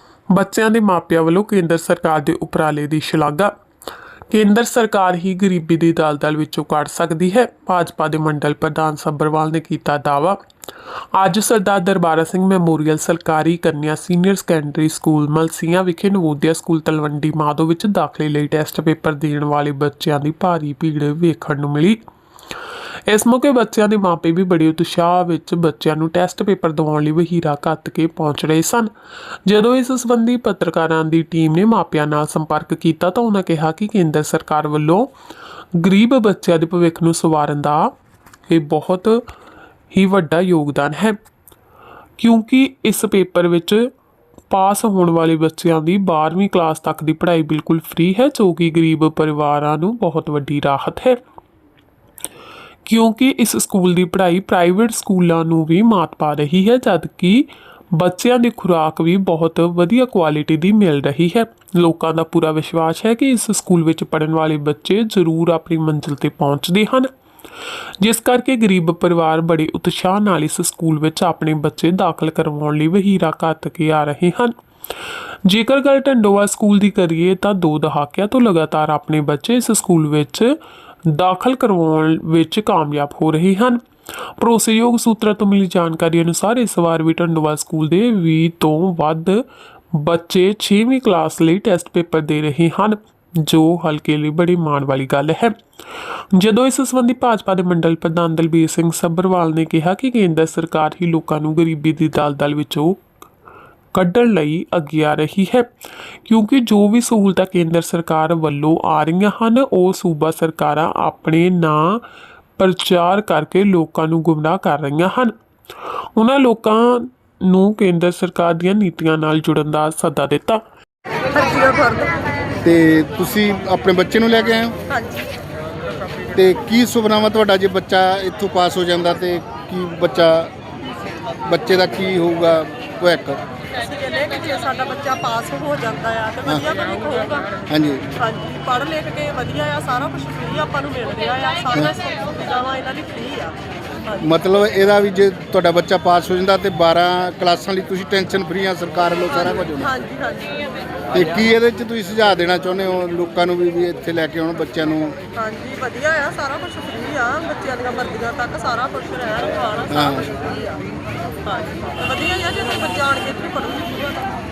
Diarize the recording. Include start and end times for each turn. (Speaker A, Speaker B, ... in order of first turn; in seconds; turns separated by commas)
Speaker A: 0.3-3.5, Speaker A: 4.3-10.4, Speaker A: 11.1-22.0, Speaker A: 23.1-28.9, Speaker A: 29.4-35.1, Speaker A: 35.8-38.0, Speaker A: 38.5-39.2, Speaker A: 39.9-41.2, Speaker A: 42.2-43.9, Speaker A: 44.5-51.2, Speaker A: 52.8-67.1, Speaker A: 68.0-74.5, Speaker A: 75.4-95.6, Speaker A: 96.3-103.0, Speaker A: 103.9-105.7, Speaker A: 106.2-112.0, Speaker A: 112.6-115.3, Speaker A: 116.1-120.6, Speaker B: 121.3-122.1, Speaker C: 122.6-124.8, Speaker B: 124.9-125.3, Speaker C: 126.3-130.5, Speaker C: 131.4-133.4, Speaker B: 133.7-137.6, Speaker C: 137.7-138.0, Speaker B: 138.2-144.1, Speaker C: 144.2-149.9, Speaker B: 149.3-150.7, Speaker C: 151.1-155.2, Speaker B: 155.3-164.4, Speaker C: 159.9-160.2